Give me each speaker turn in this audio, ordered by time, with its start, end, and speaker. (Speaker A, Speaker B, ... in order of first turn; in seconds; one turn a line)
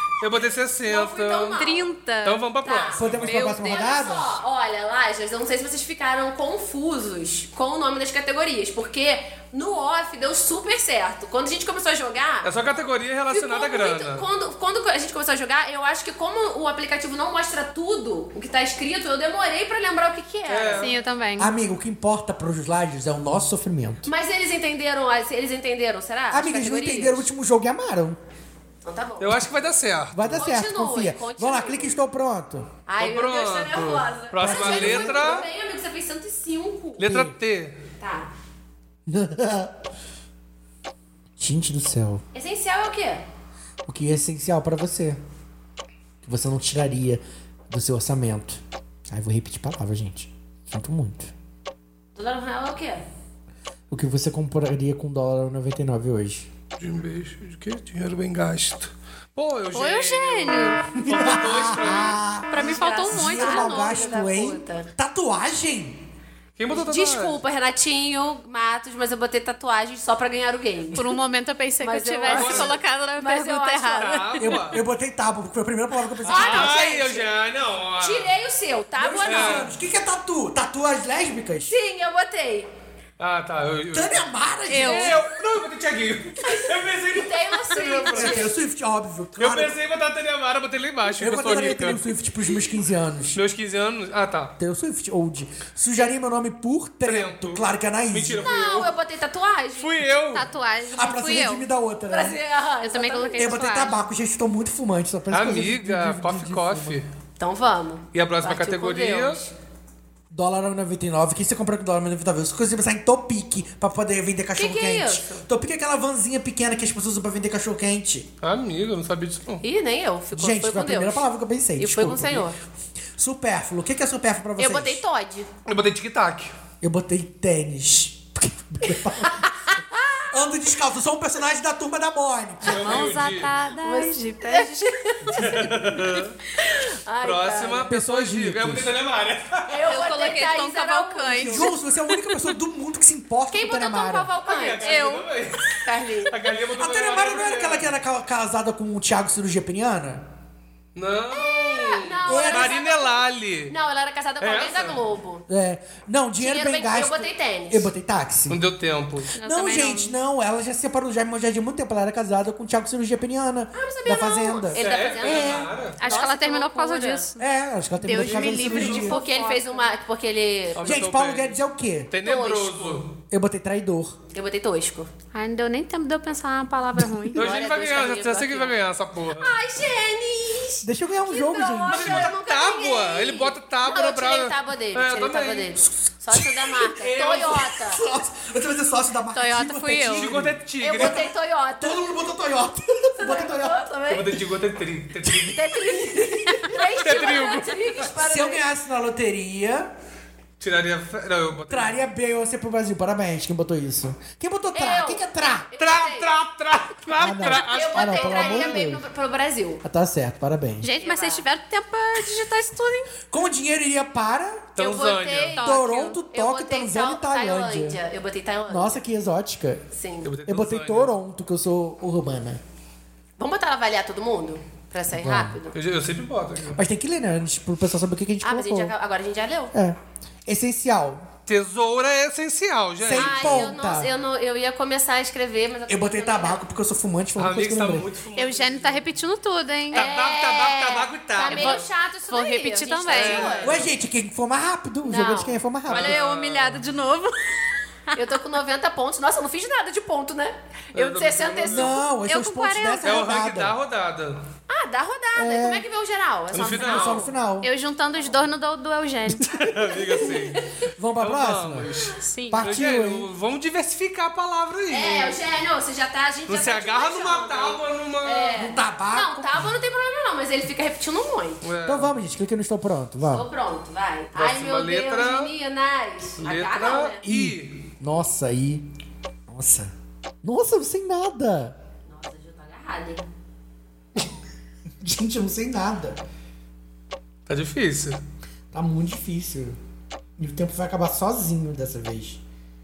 Speaker A: 0.2-1.6
Speaker B: 0.9-1.9
Speaker C: 1.6-2.4
Speaker A: 2.2-3.4
Speaker B: 2.6-12.5
Speaker D: 3.0-4.3
Speaker C: 3.2-4.0
Speaker A: 12.4-14.2
Speaker B: 13.3-20.9
Speaker A: 20.5-20.9
Speaker C: 20.8-21.5
Speaker D: 21.4-24.1
Speaker B: 24.0-27.2
Speaker D: 26.3-28.2
Speaker B: 28.8-29.4
Speaker A: 29.2-30.4
Speaker D: 30.1-32.7
Speaker B: 30.4-32.0
Speaker B: 32.9-37.1
Speaker A: 33.0-35.5
Speaker D: 34.4-35.5
Speaker A: 37.0-37.8
Speaker D: 37.0-37.3
Speaker B: 38.0-38.3
Speaker D: 39.1-39.7
Speaker D: 41.4-42.2
Speaker B: 42.3-43.2
Speaker D: 43.9-45.2
Speaker D: 46.2-51.3
Speaker B: 52.1-53.0
Speaker D: 53.9-56.5
Speaker A: 56.8-62.2
Speaker C: 59.7-61.0
Speaker D: 61.0-66.0
Speaker C: 62.5-64.3
Speaker B: 62.5-64.9
Speaker A: 66.6-67.4
Speaker B: 66.7-71.2
Speaker C: 70.9-74.6
Speaker B: 71.8-74.3
Speaker A: 72.2-72.8
Speaker A: 74.0-74.8
Speaker D: 74.4-76.8
Speaker A: 76.2-78.3
Speaker B: 76.2-77.3
Speaker B: 78.0-79.7
Speaker D: 79.0-81.7
Speaker A: 79.2-79.7
Speaker B: 81.7-82.7
Speaker A: 83.2-84.2
Speaker D: 83.9-85.2
Speaker C: 84.7-85.2
Speaker A: 84.7-88.5
Speaker B: 86.4-88.5
Speaker D: 88.1-89.8
Speaker A: 89.4-92.1
Speaker D: 91.1-93.4
Speaker A: 93.3-94.5
Speaker D: 94.6-98.5
Speaker A: 97.0-98.9
Speaker B: 98.4-100.0
Speaker A: 99.7-100.5
Speaker C: 100.3-101.7
Speaker D: 100.9-102.3
Speaker B: 102.1-103.8
Speaker C: 102.8-104.0
Speaker D: 103.3-107.0
Speaker A: 105.3-107.0
Speaker B: 107.4-109.5
Speaker A: 108.1-109.4
Speaker D: 110.3-118.3
Speaker B: 114.6-115.4
Speaker A: 118.4-119.6
Speaker B: 119.6-121.2
Speaker D: 120.3-122.5
Speaker B: 121.8-122.6
Speaker D: 123.2-125.0
Speaker B: 124.6-125.5
Speaker A: 125.7-126.5
Speaker D: 126.8-129.5
Speaker B: 129.2-130.3
Speaker D: 130.3-133.1
Speaker A: 132.6-133.5
Speaker C: 132.6-135.6
Speaker B: 133.8-135.7
Speaker A: 135.3-136.3
Speaker B: 136.6-137.9
Speaker A: 137.2-140.0
Speaker D: 137.9-138.9
Speaker B: 139.7-141.7
Speaker C: 139.9-142.5
Speaker D: 141.4-144.3
Speaker B: 143.5-145.2
Speaker A: 144.4-147.9
Speaker C: 144.8-145.3
Speaker B: 145.8-146.5
Speaker D: 146.8-150.2
Speaker A: 150.9-153.7
Speaker B: 151.3-155.4
Speaker D: 152.2-152.8
Speaker A: 154.4-155.0
Speaker D: 155.5-158.6
Speaker B: 156.4-157.9
Speaker A: 158.5-159.3
Speaker C: 159.3-160.2
Speaker D: 159.4-165.7
Speaker B: 163.7-167.2
Speaker A: 164.7-166.1
Speaker C: 166.0-167.5
Speaker D: 167.4-169.2
Speaker C: 168.0-169.9
Speaker A: 168.2-169.2
Speaker B: 168.8-171.0
Speaker A: 170.7-171.6
Speaker D: 170.8-172.1
Speaker A: 172.1-173.1
Speaker B: 172.2-173.0
Speaker D: 173.3-174.2
Speaker B: 174.3-175.1
Speaker C: 175.3-177.5
Speaker B: 177.3-178.8
Speaker A: 177.3-179.6
Speaker B: 179.4-188.0
Speaker D: 180.8-182.3
Speaker A: 181.9-185.8
Speaker A: 186.9-187.6
Speaker D: 187.2-191.3
Speaker C: 189.3-190.3
Speaker A: 190.1-191.2
Speaker B: 190.8-192.1
Speaker D: 191.8-193.8
Speaker B: 193.2-194.4
Speaker A: 194.1-195.7
Speaker B: 195.4-198.6
Speaker A: 196.7-198.1
Speaker D: 198.1-199.9
Speaker A: 200.6-202.0
Speaker D: 201.7-205.7
Speaker B: 204.7-206.3
Speaker A: 205.8-208.8
Speaker D: 207.1-209.0
Speaker B: 207.6-209.8
Speaker D: 209.8-210.9
Speaker C: 210.8-213.1
Speaker B: 211.0-211.4
Speaker D: 213.3-214.8
Speaker A: 214.8-215.7
Speaker B: 214.8-218.9
Speaker C: 215.5-216.2
Speaker D: 215.6-218.0
Speaker D: 218.7-219.8
Speaker B: 219.9-220.3
Speaker A: 220.2-221.1
Speaker D: 220.5-222.6
Speaker B: 223.4-225.8
Speaker D: 225.1-225.6
Speaker A: 225.7-226.8
Speaker D: 226.8-228.9
Speaker B: 228.4-229.7
Speaker D: 229.7-231.3
Speaker A: 231.5-233.7
Speaker D: 233.0-234.1
Speaker B: 233.1-236.6
Speaker D: 235.9-238.1
Speaker A: 237.3-239.0
Speaker C: 238.3-240.1
Speaker A: 239.9-241.8
Speaker B: 239.9-243.8
Speaker C: 241.5-243.7
Speaker A: 243.1-243.9
Speaker D: 243.6-246.2
Speaker B: 245.0-245.6
Speaker A: 245.9-246.8
Speaker C: 245.9-247.6
Speaker B: 248.1-252.0
Speaker A: 250.9-251.9
Speaker D: 251.7-253.8
Speaker C: 252.2-253.2
Speaker A: 253.0-254.4
Speaker B: 254.7-257.3
Speaker D: 255.3-255.8
Speaker A: 256.5-257.3
Speaker D: 256.7-257.7
Speaker C: 257.6-260.2
Speaker A: 259.4-260.6
Speaker B: 260.3-260.6
Speaker D: 260.9-261.9
Speaker A: 261.2-265.4
Speaker C: 262.2-262.7
Speaker D: 262.5-263.3
Speaker B: 264.9-271.6
Speaker A: 266.5-268.7
Speaker D: 268.5-269.7
Speaker A: 271.6-272.1
Speaker D: 271.8-273.4
Speaker B: 273.3-277.2
Speaker A: 274.3-275.5
Speaker A: 276.4-277.7
Speaker D: 277.2-278.8
Speaker D: 279.5-279.9
Speaker D: 280.4-281.7
Speaker B: 282.1-283.2
Speaker D: 285.0-286.2
Speaker A: 287.5-288.2
Speaker D: 288.7-289.8
Speaker D: 290.4-292.4